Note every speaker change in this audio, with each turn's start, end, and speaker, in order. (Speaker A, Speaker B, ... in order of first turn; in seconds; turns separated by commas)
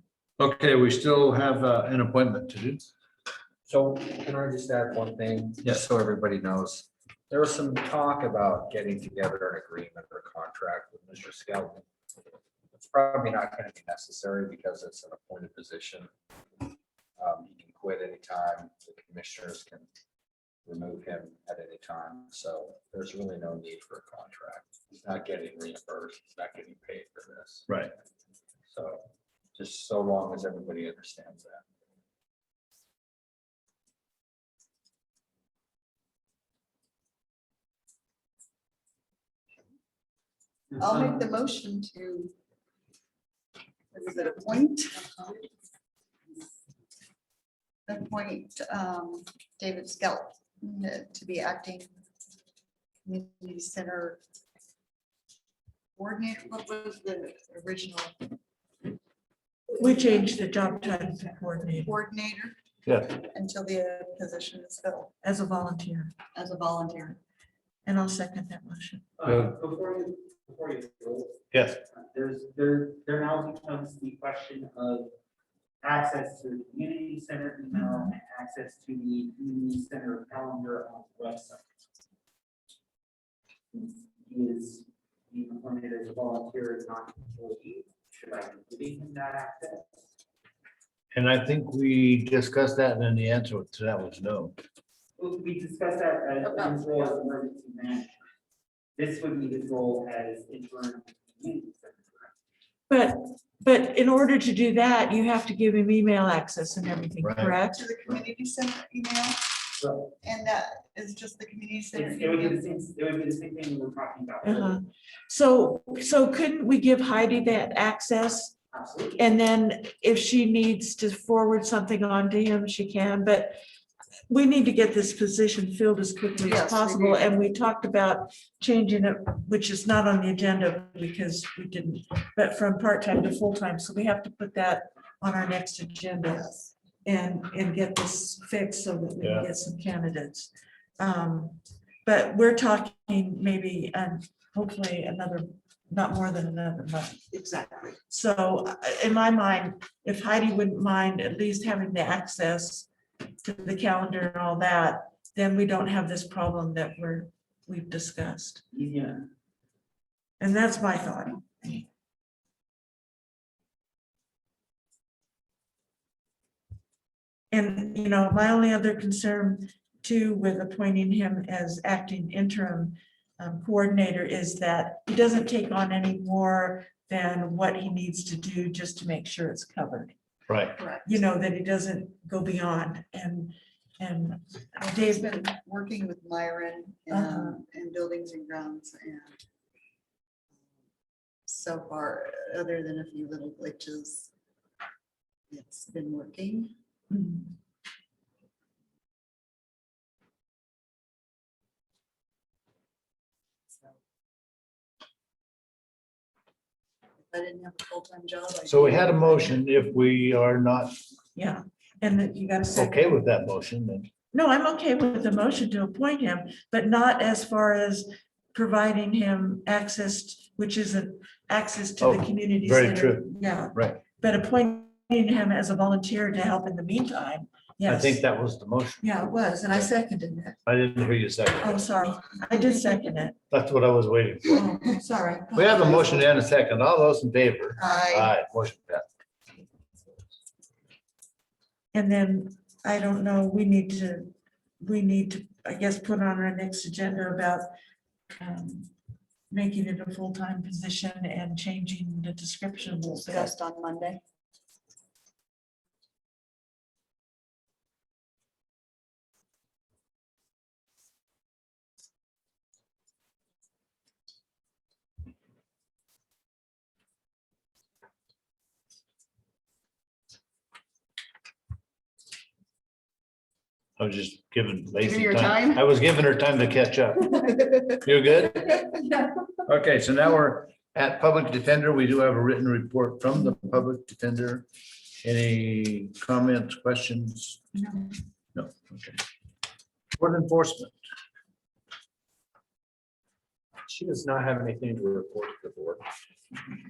Speaker A: 0.4-2.9, Speaker B: 3.7-11.8, Speaker B: 12.7-16.1, Speaker B: 17.2-19.9, Speaker B: 20.7-27.7, Speaker B: 28.7-31.6, Speaker C: 40.7-41.2, Speaker D: 40.8-42.3, Speaker D: 43.9-45.5, Speaker D: 47.9-51.9, Speaker D: 53.0-54.2, Speaker D: 56.0-58.3, Speaker E: 59.7-61.9, Speaker D: 61.7-62.6, Speaker A: 62.9-63.1, Speaker D: 63.1-65.1, Speaker E: 65.2-66.1, Speaker D: 66.3-67.2, Speaker E: 67.8-69.1, Speaker C: 69.2-71.4, Speaker A: 69.2-69.5, Speaker A: 71.5-71.8, Speaker C: 71.9-75.1, Speaker C: 75.8-81.6, Speaker E: 77.7-78.1, Speaker C: 83.7-89.9, Speaker A: 91.1-94.6, Speaker C: 95.2-98.1, Speaker C: 99.0-102.3, Speaker E: 102.9-107.9, Speaker A: 107.2-107.5, Speaker D: 107.7-109.5, Speaker C: 109.8-110.1, Speaker D: 110.2-112.7, Speaker C: 111.9-114.8, Speaker E: 114.4-118.5, Speaker C: 118.7-119.3, Speaker E: 119.2-123.6, Speaker E: 124.3-136.5, Speaker D: 126.4-127.5, Speaker D: 136.3-136.7, Speaker E: 137.0-152.9, Speaker A: 139.2-139.5, Speaker E: 153.4-158.6, Speaker C: 158.7-159.2, Speaker E: 160.4-161.8, Speaker E: 167.5-180.1, Speaker A: 180.5-180.8, Speaker D: 180.8-181.2, Speaker E: 181.0-185.4, Speaker D: 184.8-189.4, Speaker E: 187.1-187.6, Speaker D: 191.5-194.3, Speaker D: 195.5-196.7, Speaker E: 197.1-197.5, Speaker D: 207.3-209.6, Speaker A: 208.7-210.9, Speaker E: 211.3-213.2, Speaker A: 212.8-214.1, Speaker E: 214.3-228.2, Speaker A: 222.0-224.0, Speaker A: 227.8-229.1, Speaker E: 229.0-230.4, Speaker D: 229.6-230.5, Speaker A: 230.7-231.8, Speaker E: 231.6-233.4, Speaker D: 232.5-232.8, Speaker A: 233.5-234.7, Speaker E: 234.5-236.1, Speaker A: 235.5-239.1, Speaker D: 237.8-238.3, Speaker E: 241.9-247.7, Speaker E: 248.3-248.9, Speaker E: 249.5-253.5, Speaker D: 253.0-254.2, Speaker A: 274.0-278.8, Speaker D: 275.0-275.8, Speaker A: 279.7-284.7, Speaker A: 285.2-287.6, Speaker A: 288.6-289.2, Speaker A: 290.2-291.0, Speaker B: 293.9-296.0